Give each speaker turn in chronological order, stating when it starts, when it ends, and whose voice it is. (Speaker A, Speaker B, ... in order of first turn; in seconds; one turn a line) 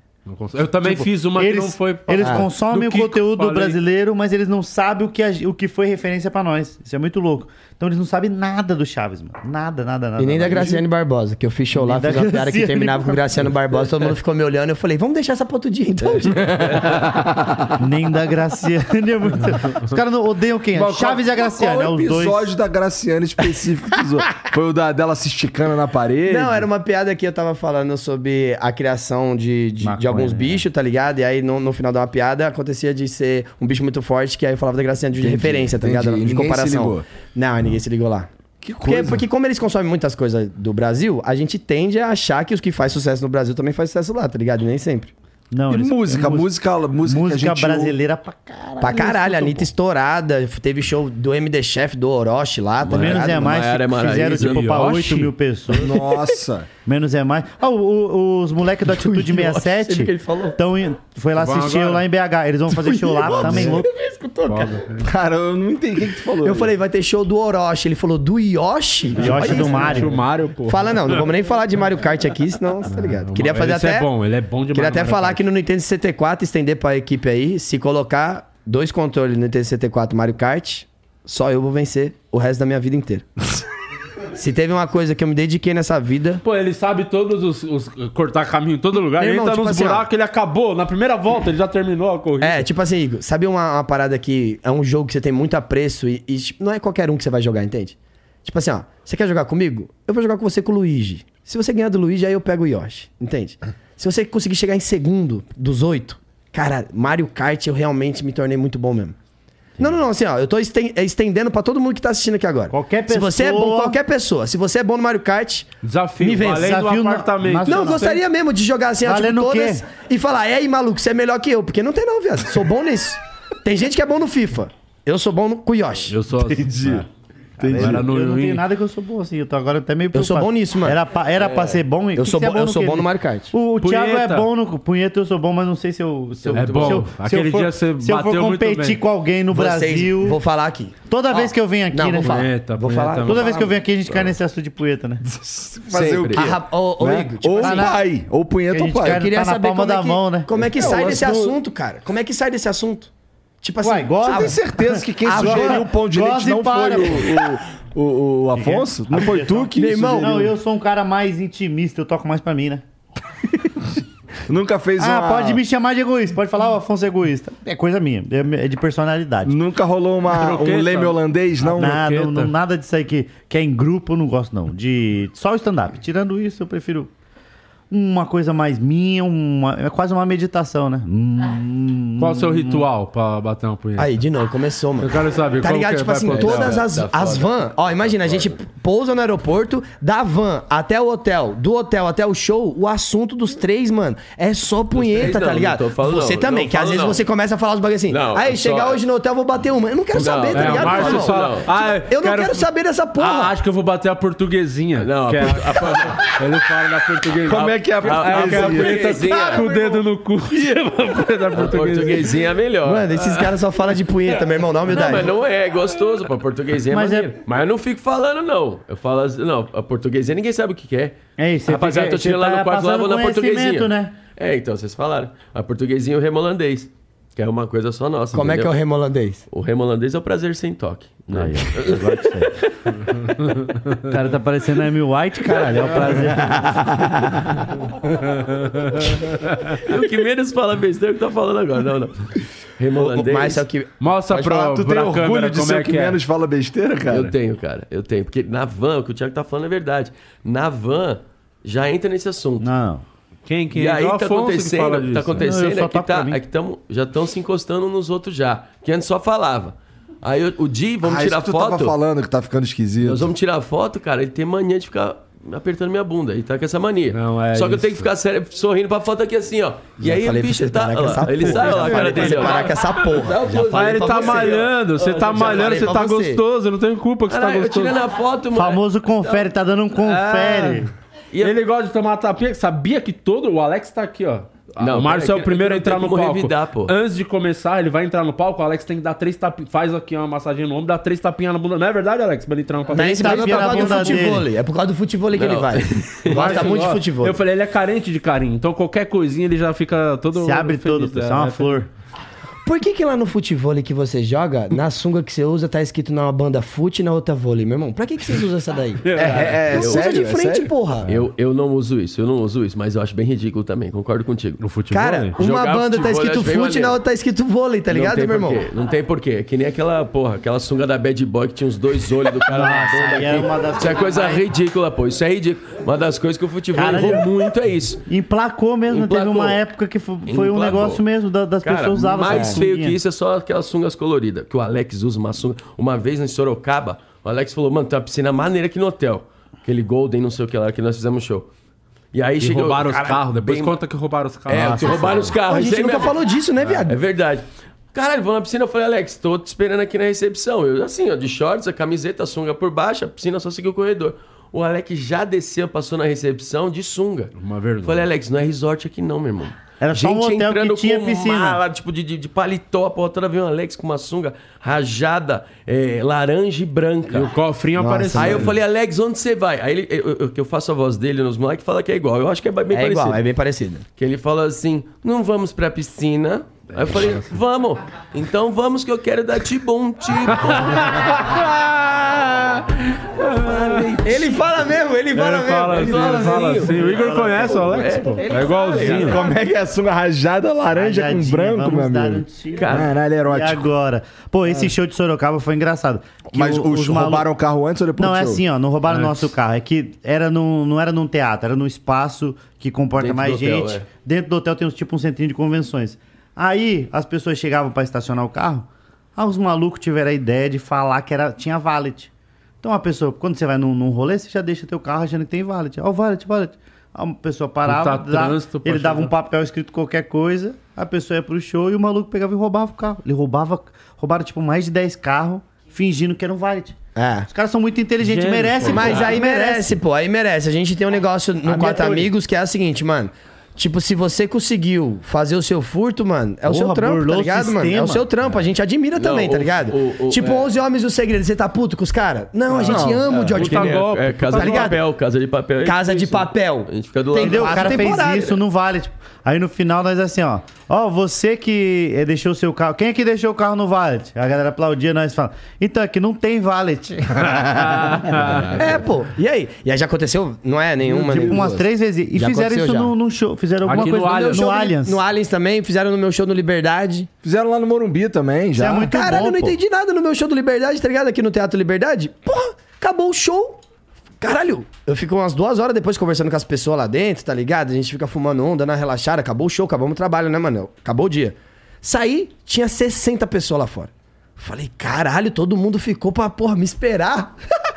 Speaker A: 0.2-3.8
Speaker B: 0.8-10.8
Speaker C: 2.2-2.5
Speaker C: 10.2-16.8
Speaker B: 11.7-13.5
Speaker D: 16.5-16.9
Speaker B: 17.8-22.5
Speaker E: 20.7-26.7
Speaker C: 26.3-38.3
Speaker B: 29.8-30.6
Speaker E: 35.2-37.0
Speaker E: 38.6-39.2
Speaker C: 38.8-45.1
Speaker B: 45.5-46.5
Speaker E: 45.7-47.9
Speaker B: 47.0-49.7
Speaker C: 48.8-53.6
Speaker D: 52.8-55.1
Speaker B: 52.9-55.9
Speaker A: 54.3-55.3
Speaker E: 55.7-56.7
Speaker B: 56.9-63.9
Speaker C: 59.0-60.5
Speaker A: 61.4-62.0
Speaker C: 62.7-64.8
Speaker A: 64.4-65.1
Speaker E: 65.0-66.7
Speaker C: 66.4-74.1
Speaker B: 69.1-70.1
Speaker A: 69.2-71.4
Speaker A: 72.8-75.4
Speaker C: 74.7-83.3
Speaker C: 84.3-86.4
Speaker A: 86.4-92.7
Speaker C: 89.0-90.0
Speaker C: 92.4-109.2
Speaker C: 109.8-115.7
Speaker B: 112.7-114.0
Speaker A: 115.8-118.2
Speaker C: 116.2-116.8
Speaker B: 116.6-118.1
Speaker C: 117.6-126.1
Speaker B: 119.0-119.8
Speaker A: 126.1-127.0
Speaker E: 126.5-127.0
Speaker E: 127.6-128.0
Speaker B: 127.6-140.4
Speaker A: 127.7-128.6
Speaker C: 130.1-131.0
Speaker D: 131.4-131.8
Speaker C: 132.2-133.5
Speaker A: 133.8-134.5
Speaker D: 136.4-137.1
Speaker A: 136.5-139.0
Speaker C: 139.5-143.8
Speaker B: 141.1-142.4
Speaker A: 142.2-143.7
Speaker B: 143.2-145.2
Speaker E: 145.2-149.3
Speaker D: 145.9-146.5
Speaker C: 146.3-147.9
Speaker B: 147.6-148.2
Speaker B: 148.7-150.5
Speaker C: 149.0-153.1
Speaker E: 150.6-151.5
Speaker D: 150.8-151.5
Speaker C: 153.6-154.6
Speaker B: 153.8-157.3
Speaker E: 154.2-160.5
Speaker C: 155.1-155.9
Speaker B: 158.6-162.8
Speaker C: 159.7-160.5
Speaker E: 164.5-165.6
Speaker B: 165.0-169.6
Speaker E: 169.4-172.0
Speaker A: 170.3-172.5
Speaker B: 171.8-177.1
Speaker B: 177.9-182.8
Speaker A: 182.2-184.1
Speaker C: 184.0-203.6
Speaker A: 185.0-186.8
Speaker D: 186.3-188.6
Speaker D: 194.9-197.2
Speaker D: 198.1-199.0
Speaker D: 200.1-201.7
Speaker A: 200.5-212.4
Speaker D: 205.0-206.3
Speaker E: 207.4-209.3
Speaker D: 207.8-209.9
Speaker D: 211.5-213.5
Speaker C: 212.8-215.3
Speaker D: 214.9-228.8
Speaker B: 216.9-217.3
Speaker B: 221.4-224.1
Speaker C: 228.3-229.4
Speaker D: 229.5-232.7
Speaker B: 231.3-232.5
Speaker B: 234.1-236.9
Speaker A: 238.1-239.7
Speaker D: 239.8-243.7
Speaker C: 242.9-244.5
Speaker A: 244.0-246.2
Speaker E: 244.4-247.3
Speaker D: 247.1-252.7
Speaker B: 252.6-253.0
Speaker A: 253.4-255.5
Speaker D: 253.7-261.9
Speaker B: 255.4-256.4
Speaker E: 261.0-263.3
Speaker D: 263.0-275.9
Speaker A: 267.1-268.1
Speaker C: 270.0-274.7
Speaker A: 271.4-272.7
Speaker A: 273.5-278.0
Speaker C: 275.3-276.4
Speaker D: 277.3-279.5
Speaker B: 278.5-280.9
Speaker A: 280.0-280.9
Speaker D: 281.3-281.6
Speaker A: 281.4-294.2
Speaker D: 284.8-286.9
Speaker C: 292.9-297.4
Speaker B: 292.9-294.5
Speaker D: 295.3-296.8
Speaker A: 296.3-301.8
Speaker B: 300.4-301.9
Speaker C: 302.6-311.1
Speaker A: 309.0-309.6
Speaker E: 309.1-310.7
Speaker D: 309.2-310.1
Speaker D: 311.1-314.6
Speaker A: 314.6-315.4
Speaker C: 314.9-318.6
Speaker D: 315.4-317.0
Speaker D: 317.9-328.0
Speaker B: 322.5-324.4
Speaker B: 326.7-327.5
Speaker B: 328.1-333.0
Speaker D: 328.9-329.6
Speaker D: 330.3-331.0
Speaker D: 331.6-341.5
Speaker C: 332.3-332.6
Speaker D: 342.1-343.7
Speaker A: 342.4-345.3
Speaker D: 344.5-346.2
Speaker B: 344.5-345.2
Speaker C: 345.4-347.0
Speaker D: 346.8-367.3
Speaker A: 357.4-358.1
Speaker B: 359.8-361.6
Speaker A: 367.1-368.6
Speaker C: 367.8-368.6
Speaker D: 368.1-373.2
Speaker C: 372.7-373.8
Speaker D: 374.0-381.3
Speaker A: 376.7-377.3
Speaker A: 380.3-382.5
Speaker A: 383.1-384.0
Speaker D: 383.2-384.4
Speaker C: 384.0-387.5
Speaker A: 385.1-389.2
Speaker D: 385.7-389.2
Speaker C: 388.2-389.0
Speaker E: 388.8-393.7
Speaker B: 390.7-397.3
Speaker D: 392.6-392.9
Speaker E: 396.3-398.4
Speaker B: 398.0-412.1
Speaker A: 398.9-399.3
Speaker D: 403.0-403.9
Speaker B: 412.6-426.8
Speaker A: 417.6-419.1
Speaker C: 426.9-427.3
Speaker B: 427.3-429.8
Speaker A: 428.0-429.2
Speaker C: 428.7-444.8
Speaker B: 431.4-432.1
Speaker B: 436.5-438.1
Speaker D: 439.0-440.5
Speaker E: 442.6-443.1
Speaker D: 442.7-448.1
Speaker A: 443.3-444.7
Speaker C: 445.6-448.4
Speaker B: 447.2-458.3
Speaker A: 457.6-458.8
Speaker C: 458.6-462.9
Speaker E: 460.8-461.6
Speaker B: 461.0-465.0
Speaker A: 463.6-464.5
Speaker C: 464.0-467.1
Speaker E: 467.2-468.9
Speaker B: 468.6-469.6
Speaker C: 468.8-473.6
Speaker C: 474.2-487.4